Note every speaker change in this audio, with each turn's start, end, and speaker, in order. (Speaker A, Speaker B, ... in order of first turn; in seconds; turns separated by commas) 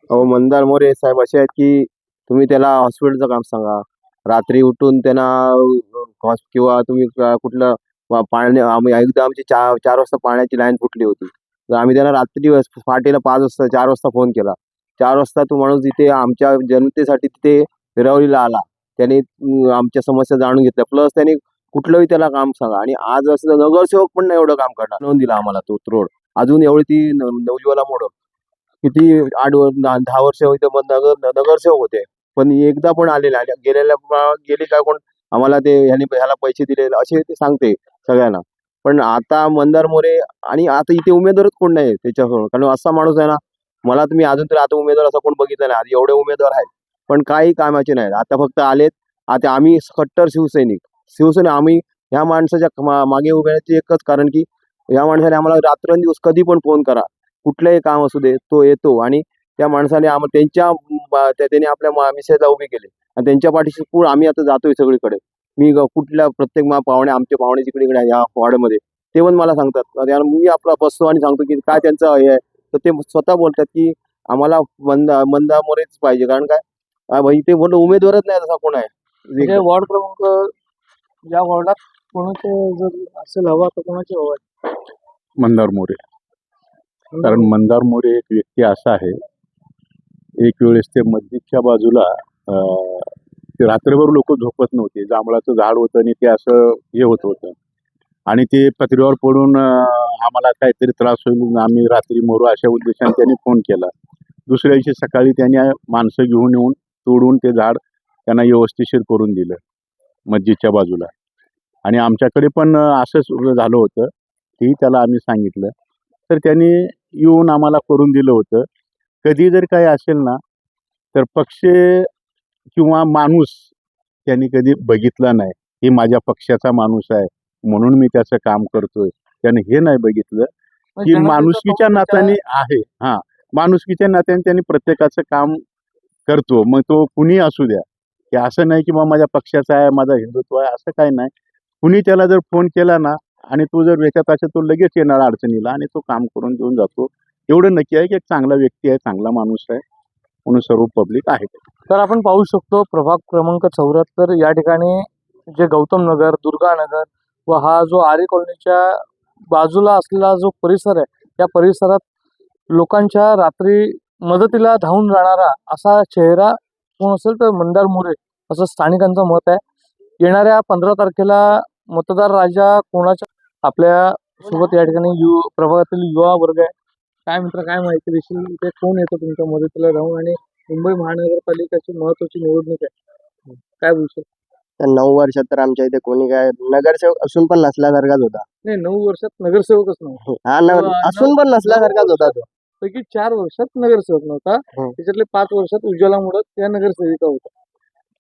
Speaker A: 0.2-28.1, Speaker A: 28.9-54.5, Speaker A: 55.0-76.6, Speaker A: 77.2-79.5, Speaker B: 79.4-80.5, Speaker B: 81.3-84.4, Speaker C: 85.4-86.0, Speaker B: 87.1-87.5, Speaker C: 87.2-89.2, Speaker C: 90.4-97.6, Speaker C: 98.3-103.9, Speaker C: 104.5-109.6, Speaker C: 110.3-111.1, Speaker C: 111.8-115.7, Speaker C: 116.3-118.7, Speaker C: 119.2-120.4, Speaker C: 121.1-122.1, Speaker C: 122.8-123.7, Speaker C: 124.3-130.5, Speaker B: 131.0-132.4, Speaker C: 131.1-135.6, Speaker C: 136.3-141.3, Speaker C: 141.8-149.8, Speaker C: 150.5-151.6, Speaker B: 151.9-162.0, Speaker B: 162.7-169.6, Speaker B: 170.2-176.7, Speaker B: 177.3-182.9, Speaker B: 183.8-184.3, Speaker D: 184.8-188.4, Speaker B: 188.7-197.5, Speaker D: 190.2-192.5